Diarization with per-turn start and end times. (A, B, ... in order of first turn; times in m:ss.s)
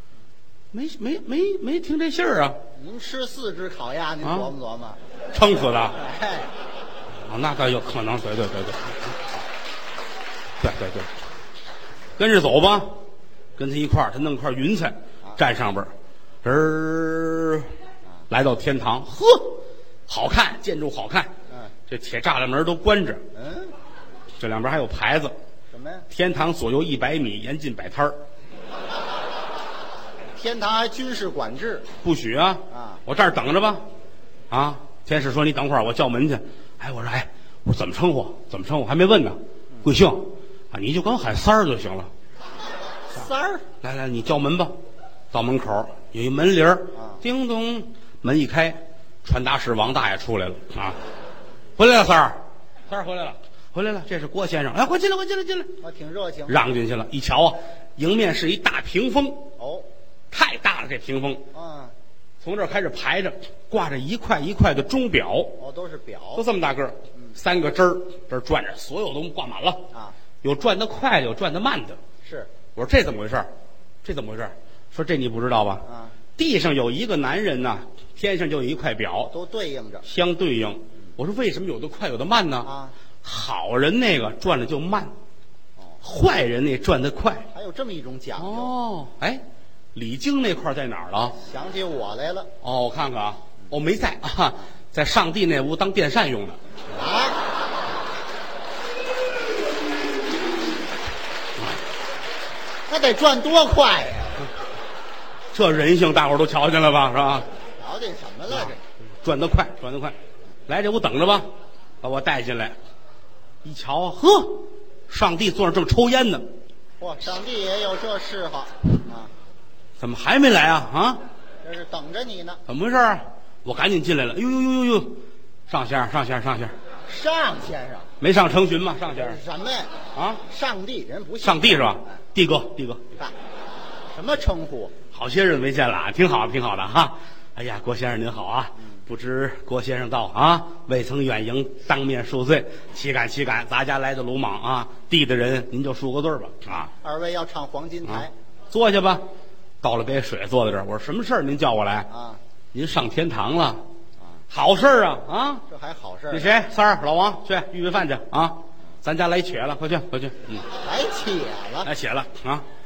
0:00.7-0:02.6 A
0:02.7-0:05.0 B
0:04.2-0:04.5 A
0:05.3-0:06.0 A
0:05.9-0:06.5 B
0:07.2-0:09.0 A
0:10.6-0:11.1 A
0:12.2-0:13.0 A
0:13.6-0:15.9 A
0:16.4-0:17.7 A
0:18.3-0:21.3 A
0:21.9-0:23.2 A
0:23.3-0:23.7 B
0:24.4-0:25.3 A
0:25.7-0:26.1 B
0:26.1-0:28.2 A
0:30.3-0:31.9 B
0:32.0-0:33.8 A
0:32.7-0:33.0 B
0:34.5-0:42.1 A
0:43.1-0:43.7 B
0:43.8-0:44.8 A
0:45.3-0:51.0 A
0:47.0-0:47.2 B
0:51.8-0:55.7 A
0:55.8-0:56.6 B
0:56.5-0:59.5 A
0:59.6-0:59.9 B
1:00.3-1:01.4 A
1:01.5-1:01.9 B
1:02.4-1:05.6 A
1:05.6-1:06.4 B
1:06.4-1:09.9 A
1:10.4-1:12.0 A
1:12.2-1:12.5 B
1:12.7-1:13.5 A
1:14.0-1:15.8 A
1:15.8-1:16.1 B
1:16.4-1:19.3 A
1:19.3-1:20.0 B
1:20.0-1:22.7 A
1:22.6-1:22.9 B
1:23.2-1:25.1 A
1:26.0-1:27.5 A
1:27.5-1:28.7 B
1:28.4-1:29.4 A
1:29.9-1:31.4 A
1:31.4-1:32.5 B
1:32.6-1:36.6 A
1:36.9-1:37.4 B
1:42.9-1:44.4 B
1:45.5-1:47.4 A
1:47.8-1:48.8 B
1:48.5-1:50.2 A
1:50.7-1:51.5 A
1:52.0-1:52.8 A
1:53.6-1:56.5 A
1:57.0-1:59.3 B
2:00.0-2:01.2 A
2:01.6-2:02.6 B
2:02.7-2:06.7 A
2:07.1-2:08.1 B
2:08.2-2:09.4 A
2:09.1-2:12.2 B
2:10.1-2:10.4 A
2:11.4-2:13.1 A
2:14.1-2:14.9 B
2:15.1-2:26.9 A
2:26.9-2:28.3 B
2:28.0-2:29.2 A
2:29.8-2:32.1 A
2:32.1-2:32.4 B
2:32.7-2:33.8 A
2:34.5-2:35.6 A
2:35.7-2:36.5 B
2:36.3-2:40.6 A
2:40.8-2:41.9 B
2:41.8-2:42.6 A